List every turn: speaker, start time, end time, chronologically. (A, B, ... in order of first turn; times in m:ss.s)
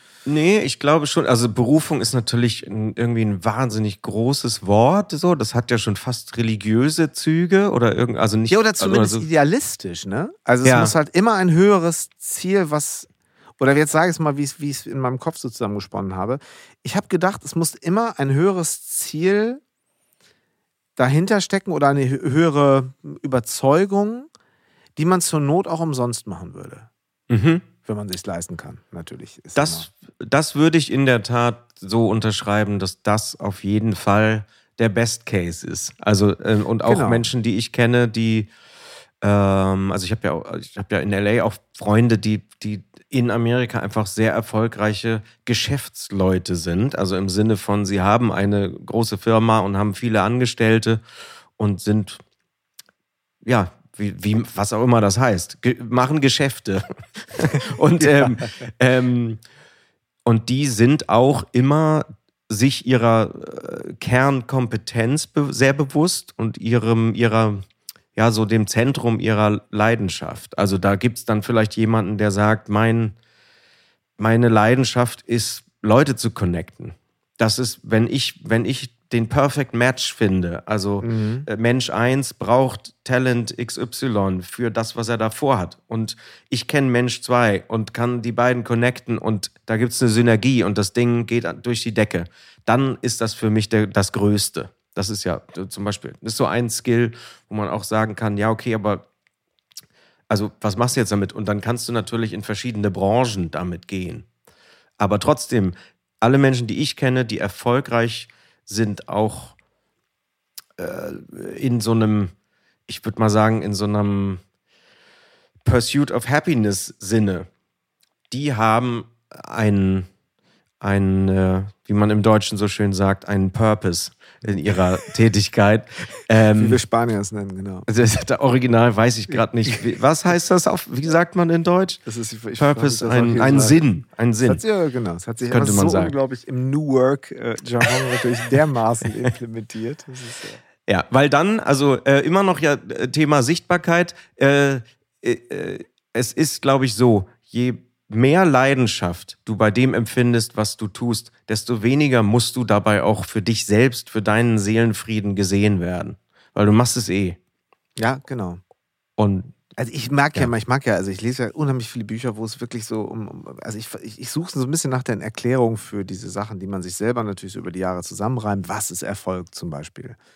0:00.2-0:09.3 A
0:08.5-0:19.6 B
0:10.6-0:10.9 A
0:21.0-0:24.3 B
0:25.0-0:26.9 B
0:27.3-0:27.6 A
0:27.8-0:29.9 B
0:29.5-0:38.5 A
0:36.8-0:37.2 B
0:39.2-0:51.0 A
0:51.6-0:52.2 A
0:53.4-0:59.4 A
0:58.0-0:58.4 B
1:00.2-1:07.6 A
1:08.1-1:13.1 A
1:14.2-1:39.0 A
1:21.0-1:21.5 B
1:40.3-1:44.2 A
1:45.0-1:49.5 A
1:50.8-1:52.3 A
1:52.9-1:54.4 A
1:55.6-1:57.5 A
1:58.3-2:00.1 A
2:00.8-2:06.8 A
2:06.6-2:07.9 B
2:07.9-2:12.0 A
2:12.0-2:13.8 B
2:12.6-2:14.6 A
2:14.4-2:20.6 B
2:15.5-2:16.1 A
2:20.9-2:37.4 A
2:38.0-2:38.6 B
2:39.2-2:39.5 A
2:39.8-2:50.2 B